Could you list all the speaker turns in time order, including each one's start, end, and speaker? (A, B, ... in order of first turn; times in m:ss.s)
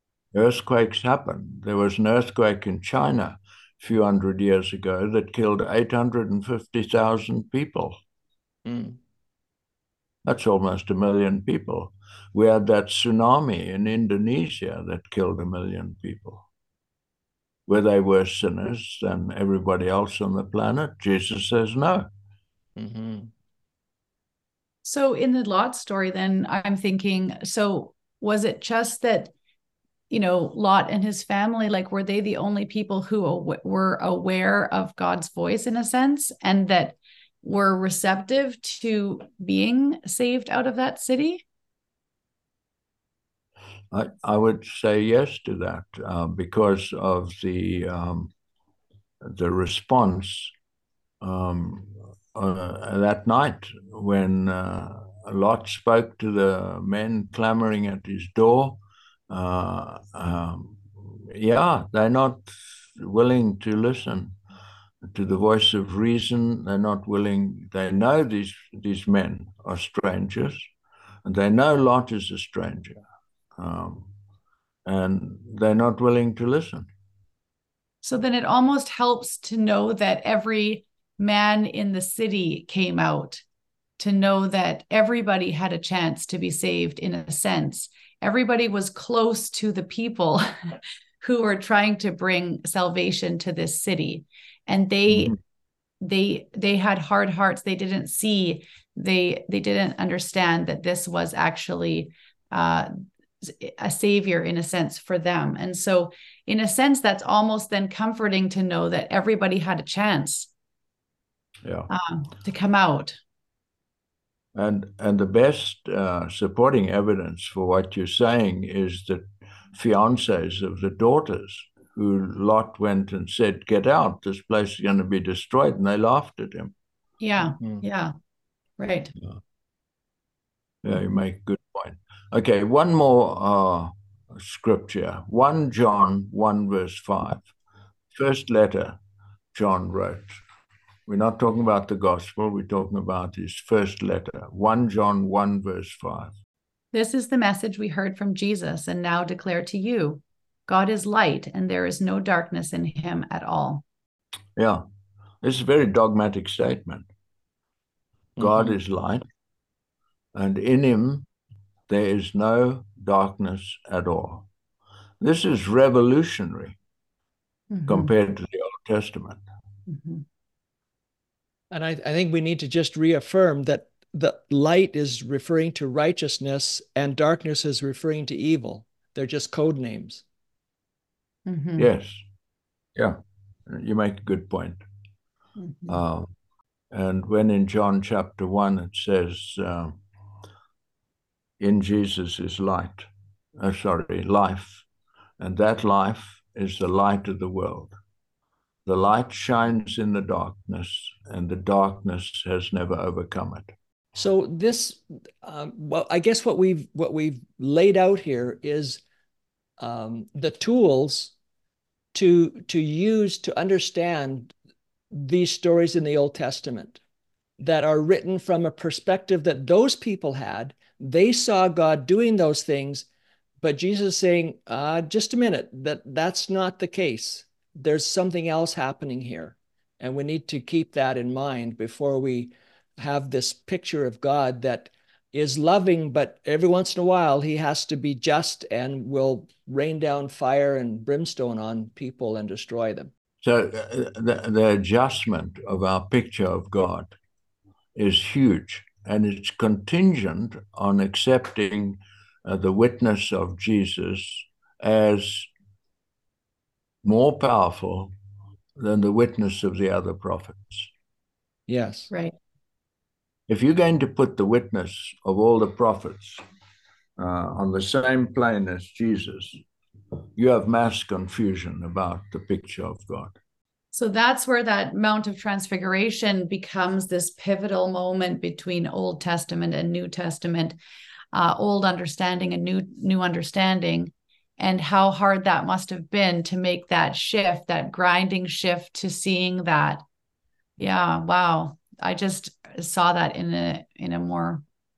0:00.3-0:08.0 A
0:08.6-0:09.0 B
0:10.2-0:16.4 A
0:17.7-0:22.1 A
0:22.8-0:23.3 B
0:24.8-0:29.3 C
0:30.1-0:41.4 C
0:43.9-0:48.3 A
0:49.2-0:50.5 A
0:51.2-1:04.4 A
1:05.1-1:10.7 A
1:11.2-1:13.0 A
1:13.6-1:14.1 A
1:14.9-1:16.9 A
1:18.0-1:23.4 C
1:24.0-1:35.4 C
1:35.1-1:35.4 A
1:36.0-1:50.5 C
1:51.6-1:51.9 A
1:51.9-1:53.2 C
1:54.6-2:06.7 A
2:07.2-2:08.1 C
2:07.4-2:07.8 B
2:08.8-2:09.1 C
2:10.8-2:17.5 A
2:18.1-2:19.0 A
2:19.5-2:20.4 A
2:21.1-2:26.3 A
2:26.9-2:33.8 C
2:34.6-2:34.8 A
2:35.4-2:37.1 A
2:38.4-2:39.2 A
2:38.4-2:38.8 B
2:40.3-2:41.3 A
2:41.9-2:44.5 A
2:45.2-2:46.8 A
2:47.7-2:48.1 C
2:47.9-2:49.4 A
2:49.9-2:50.2 C
2:51.7-3:00.2 B
3:01.5-3:01.9 C
3:01.8-3:02.2 A
3:03.0-3:04.8 A
3:05.6-3:06.0 C
3:05.9-3:06.3 A
3:06.9-3:10.0 A
3:11.6-3:14.8 A
3:15.4-3:17.9 A
3:18.8-3:23.7 A
3:24.2-3:29.0 B
3:29.8-3:31.3 B
3:32.1-3:34.5 B
3:35.1-3:37.0 B
3:37.6-3:43.1 B
3:43.6-4:03.1 B
4:03.4-4:07.2 A
4:08.0-4:15.5 A
4:17.0-4:18.1 A
4:18.8-4:20.9 A
4:21.7-4:22.1 B
4:22.1-4:22.4 C
4:23.5-4:26.4 A
4:27.2-4:29.6 A
4:30.4-4:33.4 A
4:33.9-4:40.8 C
4:41.3-4:50.0 C
4:50.8-4:54.6 C